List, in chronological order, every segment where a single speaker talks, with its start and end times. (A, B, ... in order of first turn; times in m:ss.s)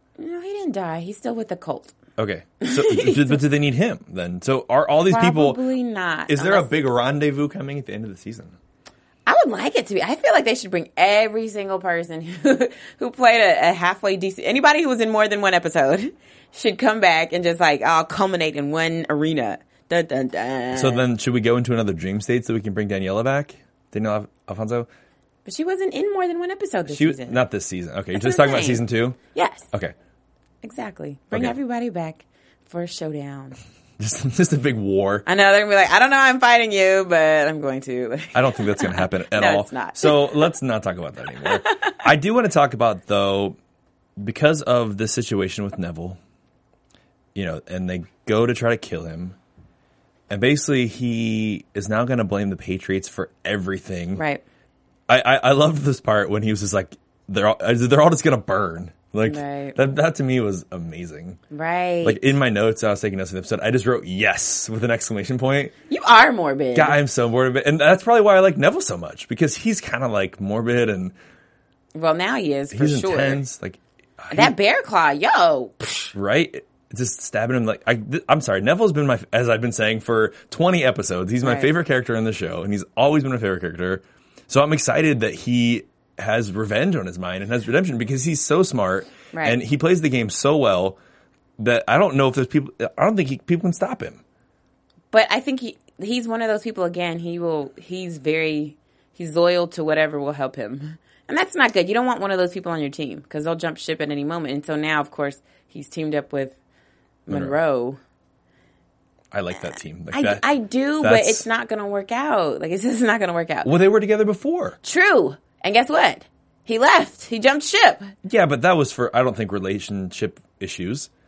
0:00.2-0:01.9 A
0:02.2-0:05.6 B
0:02.6-0:03.4 A
0:05.1-0:06.7 A
0:06.3-0:08.5 B
0:09.2-0:21.0 A
0:20.7-0:24.9 B
0:25.4-0:27.4 A
0:26.9-0:29.2 B
0:28.1-0:29.7 A
0:30.6-0:33.6 A
0:34.0-0:35.2 B
0:35.2-0:40.3 A
0:38.3-0:43.6 B
0:41.4-0:41.9 A
0:44.2-0:46.2 B
0:47.3-0:49.4 B
0:50.3-0:54.2 B
0:54.2-0:54.4 A
0:55.1-1:01.4 B
0:59.2-0:59.8 A
1:01.5-1:02.2 A
1:02.0-1:05.7 B
1:05.9-1:07.0 A
1:06.7-1:11.1 B
1:11.9-1:13.4 A
1:12.7-1:14.5 B
1:14.3-1:16.1 A
1:16.1-1:31.0 B
1:21.4-1:21.7 A
1:29.3-1:29.6 A
1:31.6-1:34.2 B
1:35.1-1:46.5 A
1:47.3-1:48.0 A
1:47.3-1:47.5 B
1:49.3-1:50.4 B
1:50.1-1:53.7 A
1:51.0-1:51.4 B
1:53.6-1:54.8 B
1:54.8-1:58.1 A
1:58.2-2:01.1 B